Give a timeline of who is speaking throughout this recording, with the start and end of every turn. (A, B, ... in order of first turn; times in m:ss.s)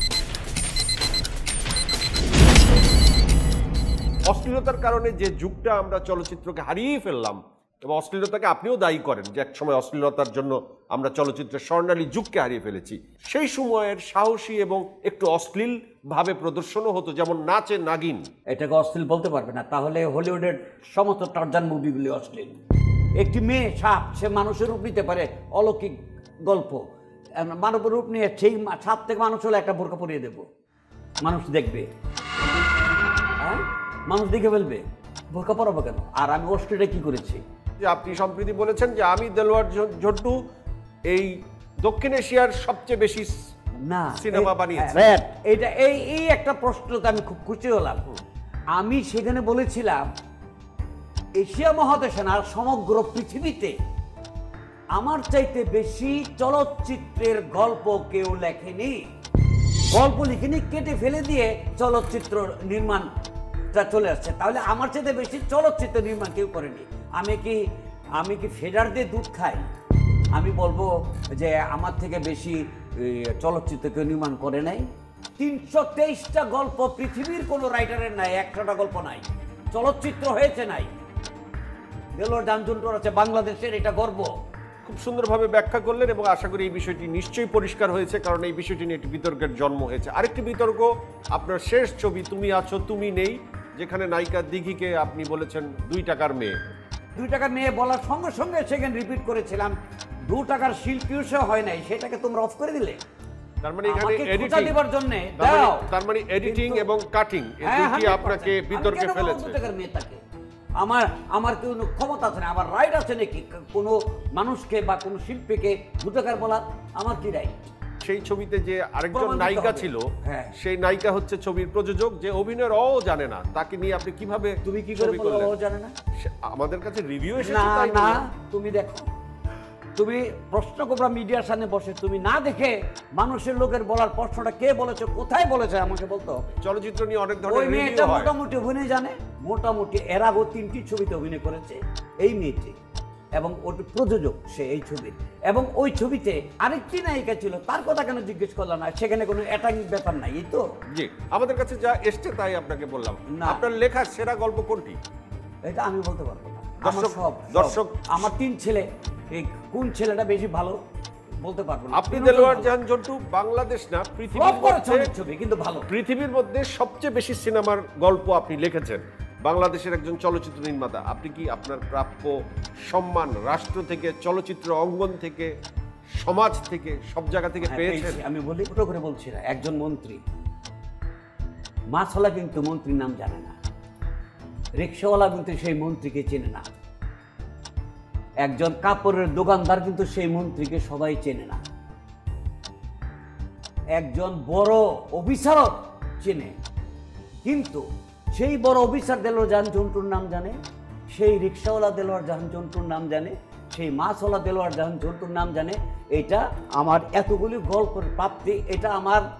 0:04.3-0:18.2 A
0:18.5-0:22.6 B
0:23.2-0:26.8 B
0:27.4-0:30.4 B
0:31.2-0:31.9 B
0:33.4-0:37.4 B
0:37.8-0:40.4 A
0:41.1-0:43.3 A
0:43.8-0:48.1 B
0:44.2-0:45.0 A
0:48.8-0:50.1 B
0:51.4-0:53.7 B
0:54.9-0:59.0 B
0:59.9-1:03.1 B
1:03.7-1:07.6 B
1:08.2-1:09.7 B
1:10.3-1:14.8 B
1:15.4-1:20.9 B
1:22.2-1:24.3 B
1:24.8-1:36.6 A
1:37.2-1:39.7 B
1:40.3-1:43.0 B
1:43.6-1:44.8 A
1:43.8-1:45.9 B
1:45.4-1:49.6 A
1:46.4-1:46.9 B
1:47.6-1:50.2 B
1:50.8-1:57.7 B
1:58.0-2:05.5 A
1:59.1-2:00.5 B
2:04.6-2:05.9 B
2:06.2-2:08.2 A
2:07.4-2:09.0 B
2:10.0-2:16.6 B
2:16.6-2:18.3 A
2:17.4-2:22.7 B
2:23.4-2:30.6 B
2:30.9-2:35.0 A
2:33.3-2:33.6 B
2:35.6-2:40.8 B
2:36.8-2:38.3 A
2:41.4-2:42.8 B
2:41.9-2:45.1 A
2:44.3-2:45.9 B
2:45.9-2:52.3 A
2:52.8-2:55.5 A
2:56.2-2:58.2 A
2:57.6-3:00.2 B
3:01.9-3:03.5 B
3:04.8-3:06.6 B
3:08.4-3:11.6 B
3:13.9-3:16.5 B
3:17.4-3:17.8 B
3:18.3-3:20.6 B
3:21.1-3:29.2 B